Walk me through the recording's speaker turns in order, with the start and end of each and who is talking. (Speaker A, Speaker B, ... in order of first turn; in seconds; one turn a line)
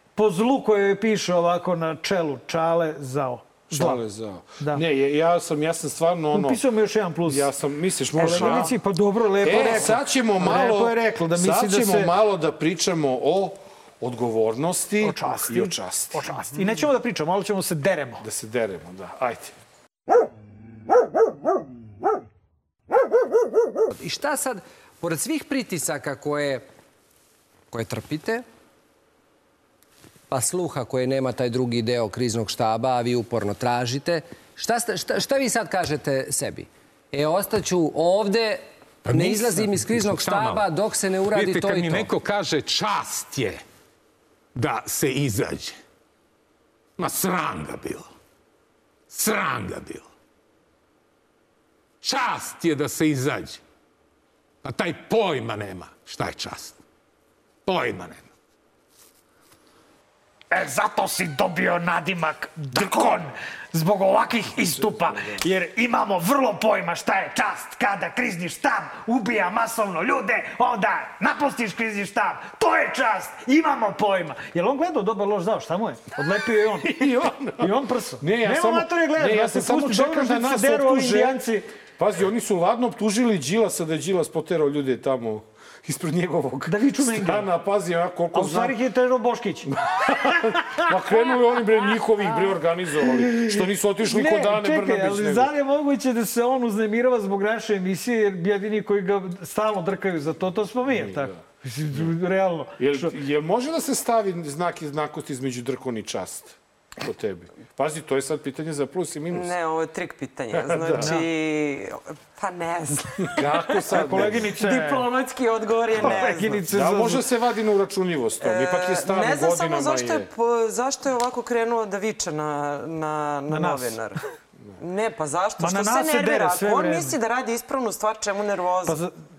Speaker A: 0.2-4.0
Speaker B: 3.7-6.6
Speaker A: 6.3-7.5
Speaker B: 7.2-8.7
Speaker A: 8.2-12.1
Speaker C: 8.2-8.8
Speaker B: 9.4-16.3
Speaker C: 9.5-9.9
Speaker A: 15.0-18.2
Speaker B: 18.2-19.6
Speaker D: 24.0-26.6
Speaker D: 27.7-28.4
Speaker D: 30.3-42.1
Speaker E: 39.0-40.7
Speaker E: 41.3-43.6
Speaker E: 44.5-45.8
Speaker E: 47.0-48.1
Speaker E: 49.1-50.1
Speaker E: 52.0-53.6
Speaker E: 54.6-56.8
Speaker E: 57.7-58.3
Speaker A: 60.5-81.7
Speaker B: 64.6-65.4
Speaker B: 76.8-81.4
Speaker B: 82.0-88.8
Speaker A: 86.7-87.5
Speaker A: 88.3-89.7
Speaker B: 89.7-95.5
Speaker A: 93.2-103.1
Speaker B: 100.9-101.4
Speaker B: 102.8-109.5
Speaker C: 109.3-116.6
Speaker B: 110.5-111.1
Speaker A: 111.0-111.2
Speaker B: 113.3-114.5
Speaker A: 113.9-115.1
Speaker A: 116.0-117.2
Speaker B: 116.0-120.3
Speaker C: 118.4-124.2
Speaker A: 123.5-124.0
Speaker C: 124.8-129.0
Speaker A: 125.6-127.2
Speaker A: 128.9-129.1